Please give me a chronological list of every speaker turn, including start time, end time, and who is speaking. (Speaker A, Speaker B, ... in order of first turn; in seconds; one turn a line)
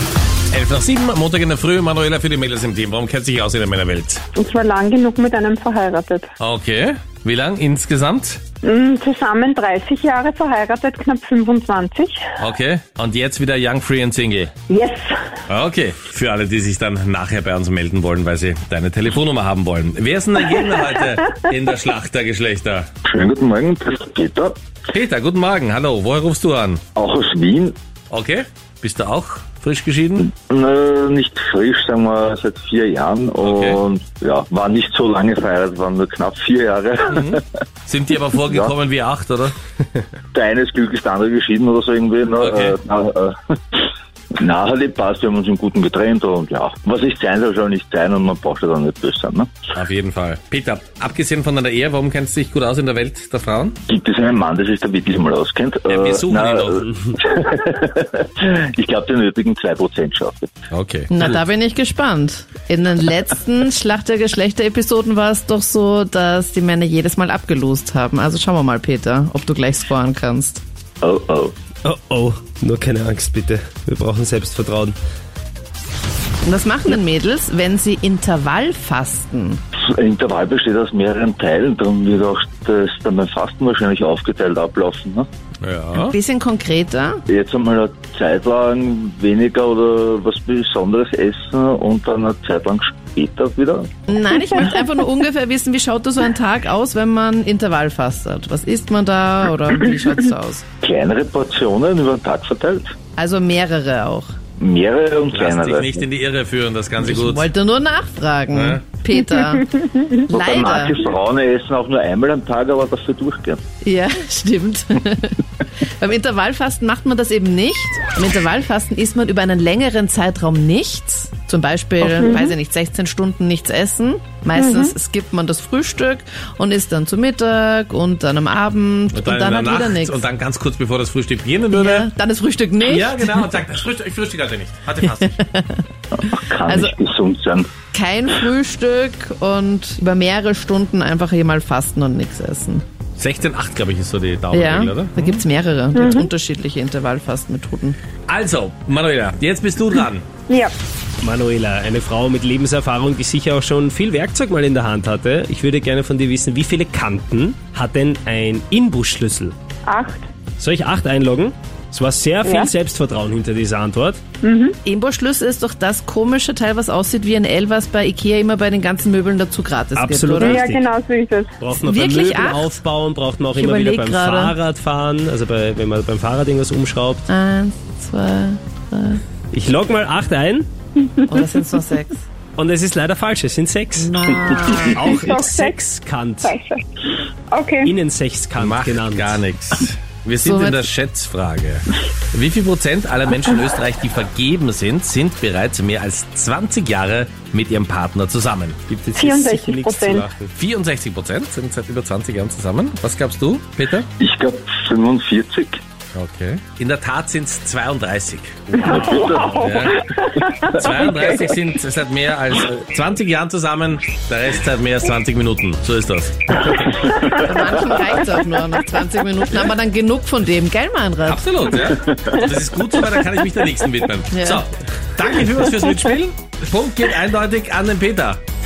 Speaker A: 0.5-4.2
Speaker B: 4.3-6.3
Speaker A: 6.4-8.4
Speaker B: 8.6-12.2
Speaker A: 12.4-14.5
Speaker B: 14.7-15.2
Speaker A: 15.5-22.9
Speaker C: 23.1-24.6
Speaker A: 24.9-26.8
Speaker C: 26.9-27.8
Speaker A: 28.1-30.3
Speaker C: 30.3-37.4
Speaker A: 33.4-33.8
Speaker A: 37.1-39.5
Speaker C: 38.5-38.7
Speaker C: 40.3-49.5
Speaker A: 42.4-42.8
Speaker A: 49.7-53.8
Speaker C: 53.9-60.5
Speaker A: 55.9-56.9
Speaker A: 60.7-61.4
Speaker D: 61.1-70.6
Speaker C: 71.0-71.5
Speaker E: 71.8-75.0
Speaker D: 76.5-79.6
Speaker C: 79.8-85.3
Speaker A: 85.6-86.2
Speaker D: 86.0-87.2
Speaker C: 87.3-93.9
Speaker D: 94.1-100.7
Speaker C: 100.8-103.0
Speaker D: 103.2-104.3
Speaker C: 104.6-106.0
Speaker A: 105.3-107.5
Speaker D: 107.0-111.0
Speaker A: 108.5-108.8
Speaker C: 110.3-113.6
Speaker D: 113.8-130.3
Speaker B: 124.6-124.9
Speaker A: 129.1-132.1
Speaker D: 131.7-133.5
Speaker A: 132.8-135.4
Speaker D: 135.2-135.8
Speaker C: 136.2-137.7
Speaker D: 136.7-137.0
Speaker D: 137.9-142.8
Speaker A: 143.2-145.4
Speaker D: 144.5-148.0
Speaker B: 146.0-146.3
Speaker A: 148.3-150.3
Speaker B: 150.5-150.7
Speaker E: 151.2-159.5
Speaker B: 159.9-160.3
Speaker E: 160.6-164.2
Speaker B: 162.4-162.7
Speaker B: 164.4-164.8
Speaker D: 164.8-170.7
Speaker E: 169.9-170.8
Speaker B: 170.4-171.5
Speaker E: 171.6-177.3
Speaker D: 171.8-172.8
Speaker D: 173.6-174.6
Speaker D: 177.3-179.2
Speaker E: 179.5-180.7
Speaker D: 181.3-182.2
Speaker E: 182.6-186.6
Speaker D: 184.0-185.2
Speaker B: 185.1-185.8
Speaker B: 186.4-186.8
Speaker B: 187.5-187.9
Speaker E: 187.8-189.4
Speaker A: 188.6-198.8
Speaker D: 190.4-190.9
Speaker E: 198.9-200.5
Speaker B: 199.2-200.3
Speaker A: 200.6-204.1
Speaker C: 204.2-205.8
Speaker A: 206.1-208.9
Speaker E: 208.8-209.7
Speaker C: 208.8-210.0
Speaker B: 209.0-210.5
Speaker A: 209.6-217.2
Speaker D: 217.2-221.5
Speaker A: 221.3-228.4
Speaker C: 221.8-222.4
Speaker D: 224.3-224.6